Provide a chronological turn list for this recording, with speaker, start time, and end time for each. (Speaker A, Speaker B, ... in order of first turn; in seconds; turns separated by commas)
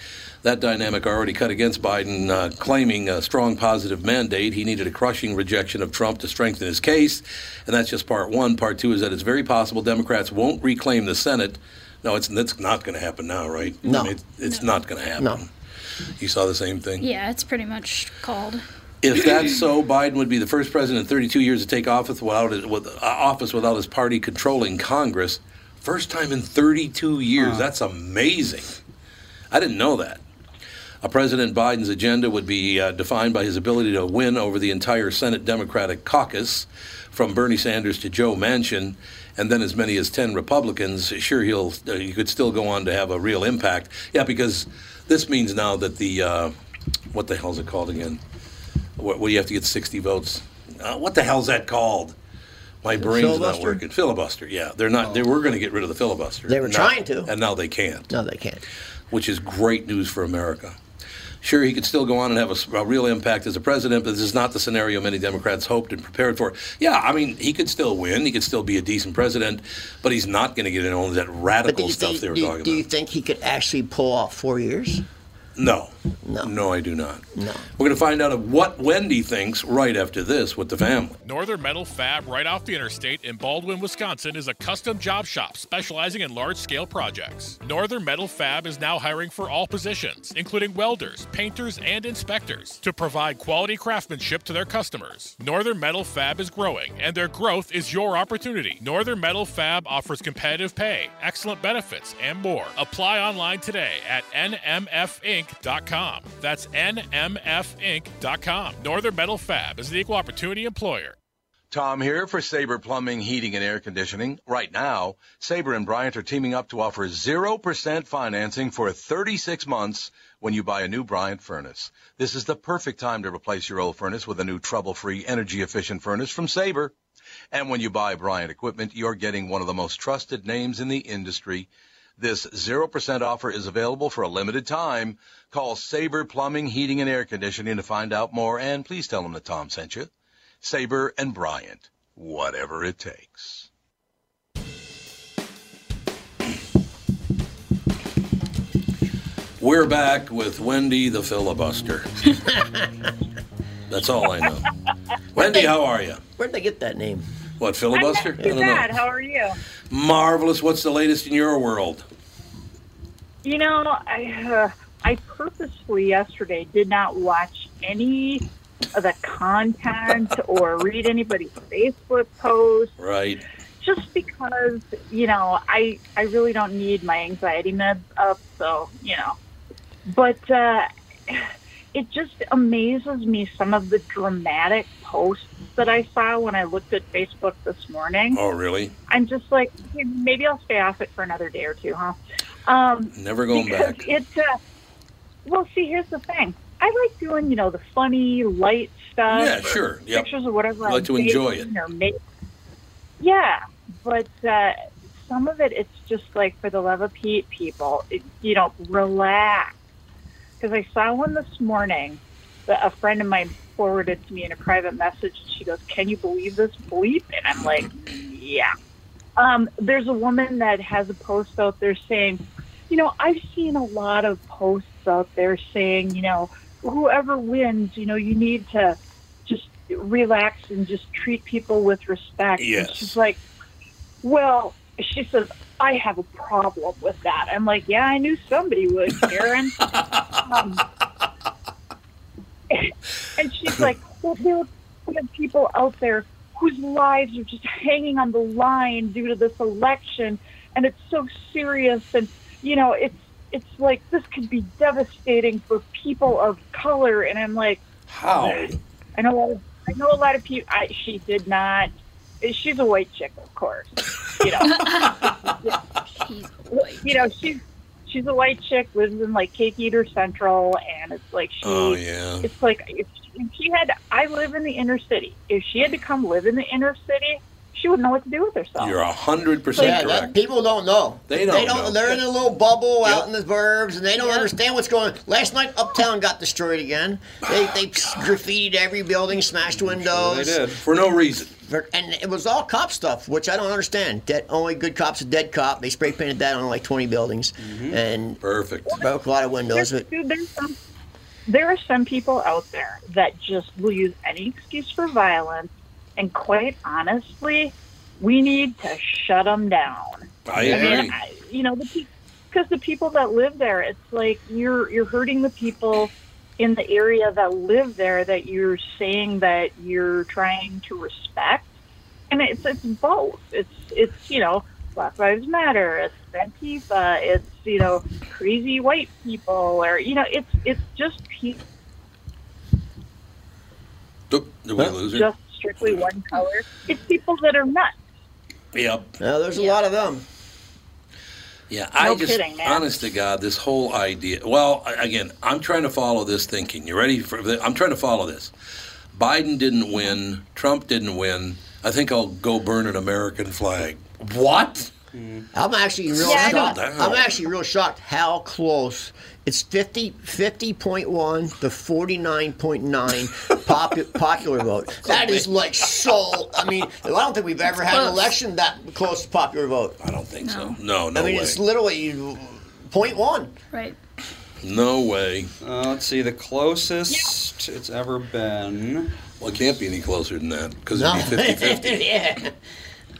Speaker A: 0.4-15.5, Speaker B: 13.8-14.1, Speaker A: 16.2-17.0, Speaker C: 17.0-18.6, Speaker A: 19.0-28.7, Speaker D: 27.4-27.7, Speaker A: 29.5-30.2, Speaker A: 31.0-46.5, Speaker A: 47.1-48.2, Speaker A: 49.0-52.1, Speaker A: 52.8-58.1, Speaker B: 53.0-53.8, Speaker B: 56.5-57.3, Speaker B: 58.1-58.6, Speaker A: 59.1-60.7, Speaker A: 61.4-72.8, Speaker B: 71.6-75.0, Speaker A: 75.5-77.2, Speaker B: 76.2-76.5, Speaker B: 77.3-77.7, Speaker A: 77.8-81.2, Speaker E: 81.2-111.2, Speaker F: 111.7-126.9, Speaker F: 127.5-140.1, Speaker F: 140.6-143.7, Speaker A: 149.6-152.1, Speaker A: 153.9-154.7, Speaker B: 155.3-155.7, Speaker A: 155.3-156.2, Speaker B: 156.4-157.3, Speaker A: 157.6-159.0, Speaker G: 157.9-159.6, Speaker A: 159.9-162.0, Speaker G: 163.4-172.9, Speaker A: 173.0-173.4, Speaker G: 173.8-179.4, Speaker G: 180.1-188.4, Speaker A: 188.3-188.9, Speaker G: 189.1-194.6, Speaker A: 193.1-194.1, Speaker G: 195.4-202.2, Speaker A: 199.3-200.3, Speaker A: 200.8-201.7, Speaker G: 203.2-209.8, Speaker G: 210.6-218.7, Speaker G: 219.3-233.4, Speaker A: 232.6-233.2, Speaker G: 234.2-240.8, Speaker A: 239.9-240.6, Speaker G: 242.7-257.8, Speaker A: 258.1-258.8, Speaker G: 258.4-265.8, Speaker C: 264.6-265.3, Speaker A: 264.7-265.3, Speaker C: 266.2-267.1, Speaker G: 266.7-279.0, Speaker A: 271.6-272.5, Speaker A: 278.8-280.3, Speaker G: 279.7-280.0, Speaker B: 279.8-290.6, Speaker A: 281.3-282.2, Speaker D: 289.8-290.8, Speaker A: 290.8-291.5, Speaker B: 291.6-300.1, Speaker D: 297.6-298.0, Speaker A: 298.4-299.0, Speaker G: 299.7-300.8, Speaker G: 301.4-321.7, Speaker A: 310.4-311.2, Speaker B: 310.6-311.1, Speaker G: 322.3-331.6, Speaker A: 334.3-335.3, Speaker G: 335.0-337.9, Speaker A: 338.7-339.1, Speaker B: 339.2-340.2, Speaker A: 341.7-348.5, Speaker G: 342.0-342.9, Speaker A: 349.1-354.9, Speaker D: 355.1-355.5, Speaker B: 355.5-369.9, Speaker A: 356.2-357.3, Speaker G: 356.2-356.7, Speaker C: 367.9-368.3, Speaker A: 370.0-371.6, Speaker C: 370.4-370.8, Speaker B: 371.1-373.5, Speaker A: 374.6-375.5, Speaker D: 375.6-379.1, Speaker A: 379.4-382.1, Speaker B: 380.9-382.5